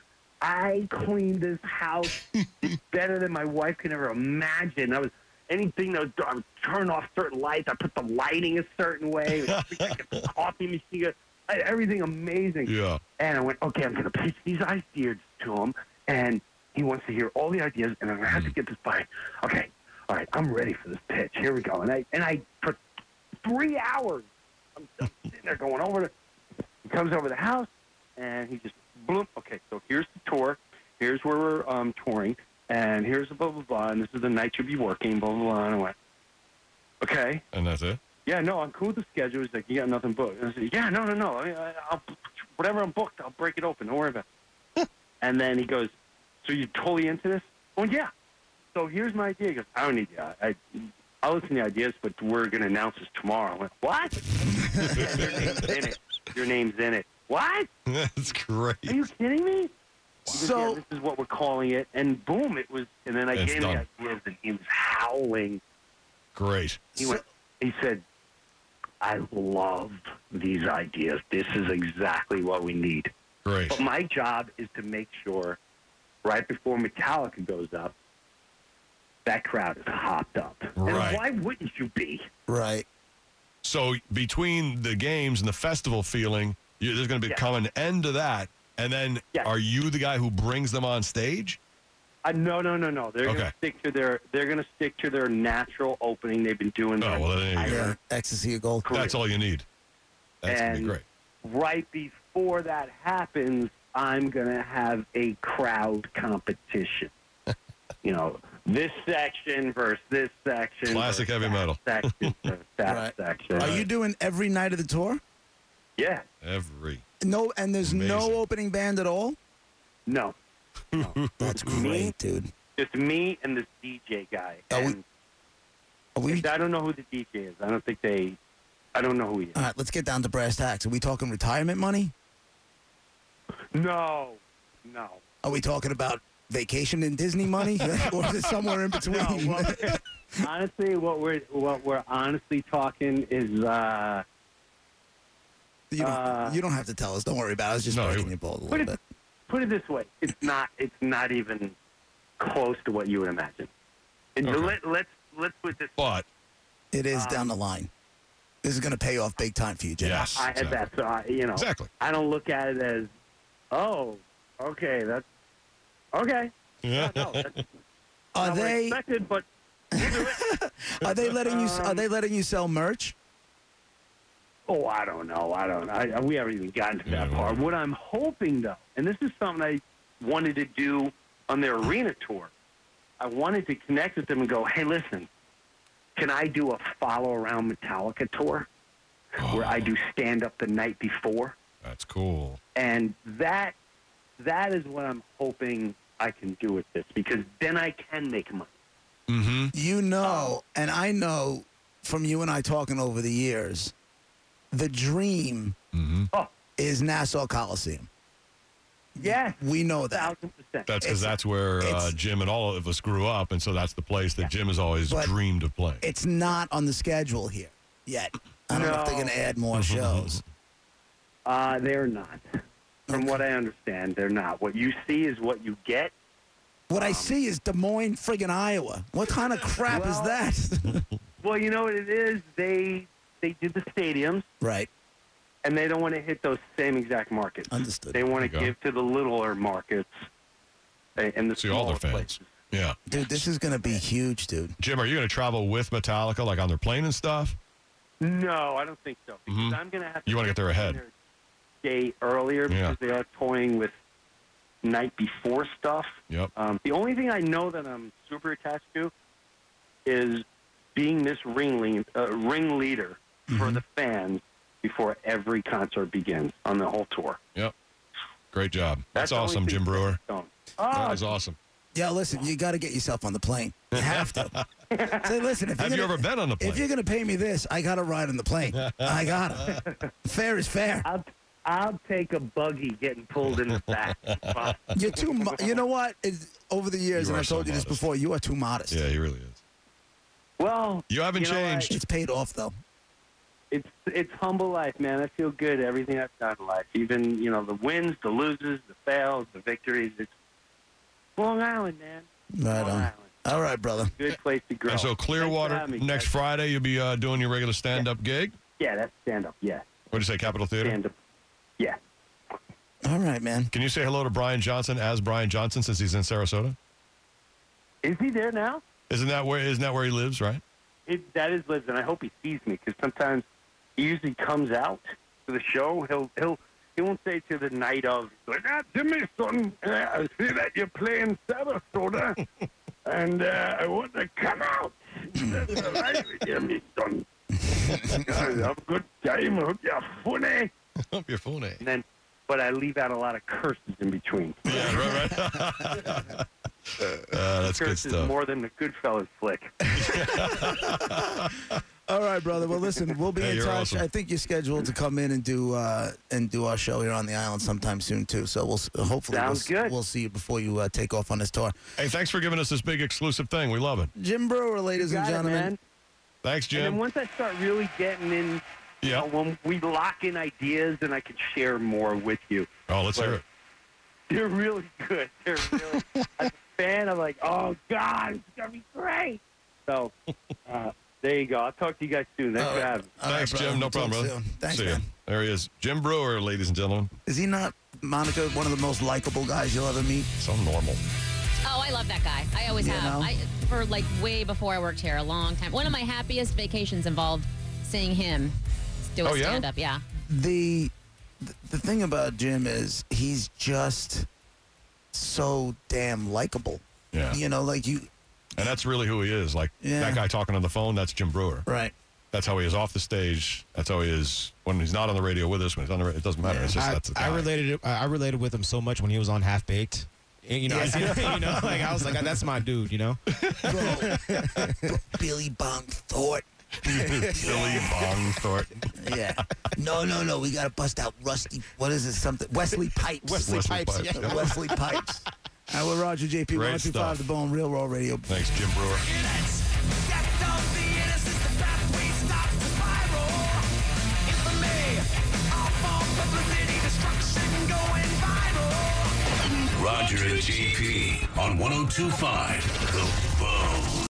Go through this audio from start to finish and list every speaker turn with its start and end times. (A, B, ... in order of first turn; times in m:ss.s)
0:00.4-0:22.8 A
0:12.7-0:13.0 B
0:23.4-0:26.1 A
0:26.8-0:36.0 A
0:37.0-0:37.4 A
0:37.5-0:38.0 B
0:38.2-0:44.2 A
0:45.2-0:48.1 A
0:48.7-0:57.7 A
0:54.7-0:55.1 C
0:54.9-0:55.7 B
0:57.9-0:59.0 B
0:58.8-0:59.7 A
1:00.3-1:05.6 A
1:00.3-1:00.8 C
1:03.4-1:03.8 B
1:06.4-1:06.9 B
1:07.0-1:08.0 A
1:09.0-1:13.1 A
1:13.4-1:13.8 B
1:13.7-1:15.6 A
1:16.2-1:17.9 A
1:19.3-1:22.3 A
1:20.8-1:21.2 B
1:22.5-1:22.9 C
1:23.6-1:31.6 B
1:32.2-1:38.0 A
1:33.2-1:33.5 B
1:37.0-1:37.9 B
1:37.6-1:38.9 C
1:38.8-1:39.2 A
1:38.9-1:39.6 B
1:40.4-1:41.0 B
1:40.5-1:47.1 A
1:48.0-1:53.8 A
1:50.9-1:52.5 B
1:52.8-1:55.2 C
1:53.6-1:53.9 B
1:56.0-1:56.3 A
1:56.4-1:57.0 B
1:57.2-1:59.4 C
1:57.8-1:58.4 B
2:00.1-2:00.4 A
2:00.9-2:01.8 B
2:01.0-2:02.1 A
2:01.4-2:02.5 C
2:02.8-2:05.0 A
2:04.7-2:05.0 C
2:06.2-2:06.5 C
2:06.3-2:08.4 A
2:08.9-2:09.6 A
2:09.6-2:12.1 C
2:13.7-2:15.2 A
2:15.4-2:19.9 C
2:19.0-2:24.2 A
2:25.9-2:29.0 C
2:26.0-2:26.6 A
2:27.9-2:28.3 B
2:29.5-2:31.8 A
2:32.4-2:33.7 A
2:34.4-2:36.0 A
2:34.4-2:34.8 B
2:36.0-2:36.3 B
2:36.9-2:37.9 C
2:37.1-2:37.5 A
2:38.6-2:40.3 C
2:40.0-2:40.8 B
2:40.4-2:43.1 A
2:41.6-2:41.9 B
2:43.7-2:45.3 A
2:46.1-2:47.6 A
2:46.8-2:47.4 B
2:48.3-2:49.0 C
2:48.4-2:50.4 A
2:50.0-2:53.2 C
2:51.4-2:52.0 A
2:54.7-3:02.5 A
2:57.1-2:57.6 B
3:03.2-3:05.3 A
3:06.2-3:08.7 A
3:09.4-3:09.9 B
3:09.4-3:11.6 A
3:11.8-3:12.6 B
3:12.8-3:13.8 A
3:14.4-3:18.7 A
3:19.3-3:19.7 B
3:19.7-3:23.9 C
3:20.2-3:20.6 A
3:24.7-3:25.8 C
3:25.9-3:26.3 B
3:26.8-3:28.1 C
3:29.2-3:30.3 C
3:29.2-3:30.9 A
3:30.9-3:36.0 B
3:31.0-3:32.2 C
3:35.1-3:35.3 C
3:36.0-3:40.4 C
3:38.7-3:39.4 A
3:39.7-3:40.4 B
3:41.5-3:42.4 A
3:43.1-3:43.4 C
3:43.1-3:46.1 A
3:46.9-3:51.0 C
3:46.9-3:47.3 A
3:49.9-3:50.4 A
3:51.4-3:54.5 A
3:54.6-3:54.9 C
3:55.6-4:00.1 A
3:57.7-3:58.2 C
3:58.4-3:58.7 B
4:01.2-4:02.5 A
4:01.6-4:03.0 B
4:03.1-4:04.8 C
4:04.8-4:07.6 B
4:08.2-4:11.1 A
4:09.5-4:11.0 B
4:11.8-4:13.9 A
4:12.7-4:13.0 B
4:14.8-4:19.1 A
4:20.1-4:27.4 A
4:23.5-4:23.8 C
4:28.5-4:30.2 B
4:29.2-4:31.3 A
4:30.9-4:31.6 B
4:31.9-4:34.5 C
4:33.9-4:34.6 B
4:34.9-4:35.3 A
4:35.2-4:41.1 C
4:35.8-4:36.8 B
4:38.8-4:39.2 B
4:41.0-4:45.7 A
4:44.9-4:49.0 C
4:47.2-4:48.0 B
4:48.9-4:49.6 B
4:50.6-4:52.0 A
4:51.1-4:51.9 B
4:51.9-4:52.7 C
4:53.7-5:00.3 A
5:01.4-5:03.4 A
5:02.5-5:04.1 C
5:04.2-5:06.3 A
5:04.9-5:08.6 B
5:08.8-5:09.9 A
5:10.1-5:11.0 B
5:10.8-5:11.1 A
5:13.0-5:13.7 C
5:13.7-5:16.8 B
5:18.0-5:18.8 A
5:19.1-5:20.6 B
5:21.1-5:23.4 A
5:24.0-5:32.4 A
5:33.0-5:37.3 A
5:37.8-5:38.4 C
5:37.9-5:40.7 A
5:41.1-5:41.8 B
5:41.8-5:45.0 A
5:44.7-5:46.4 B
5:44.7-5:46.0 C
5:47.2-5:48.3 B
5:47.7-5:49.8 A
5:50.0-5:51.8 B
5:50.0-5:50.7 C
5:52.1-6:01.8 C
5:53.4-5:54.0 B
5:59.3-6:00.0 A
6:02.0-6:04.1 B
6:04.2-6:05.7 C
6:05.0-6:05.8 A
6:06.4-6:07.0 B
6:06.7-6:13.4 A
6:09.0-6:09.3 B
6:12.9-6:13.4 B
6:14.3-6:20.1 A
6:20.7-6:23.1 A
6:22.6-6:25.0 C
6:23.3-6:27.1 B
6:27.3-6:30.3 C
6:30.4-6:31.0 B
6:31.6-6:38.6 D
6:32.7-6:33.3 C
6:39.1-6:40.0 D
6:39.2-6:39.6 B
6:40.2-6:44.3 C
6:45.1-6:48.1 C
6:47.1-6:47.4 B
6:48.6-6:51.6 B
6:49.8-6:50.2 C
6:51.7-6:51.9 C
6:52.3-6:57.5 B
6:56.4-7:05.0 E
7:00.7-7:01.4 C
7:00.7-7:02.2 B
7:03.5-7:04.6 B
7:03.6-7:07.9 C
7:06.8-7:08.9 B
7:07.1-7:08.4 E
7:09.0-7:13.6 C
7:12.8-7:15.1 E
7:13.4-7:14.6 B
7:14.2-7:18.3 C
7:16.5-7:17.2 B
7:18.3-7:19.1 B
7:29.5-7:34.1 F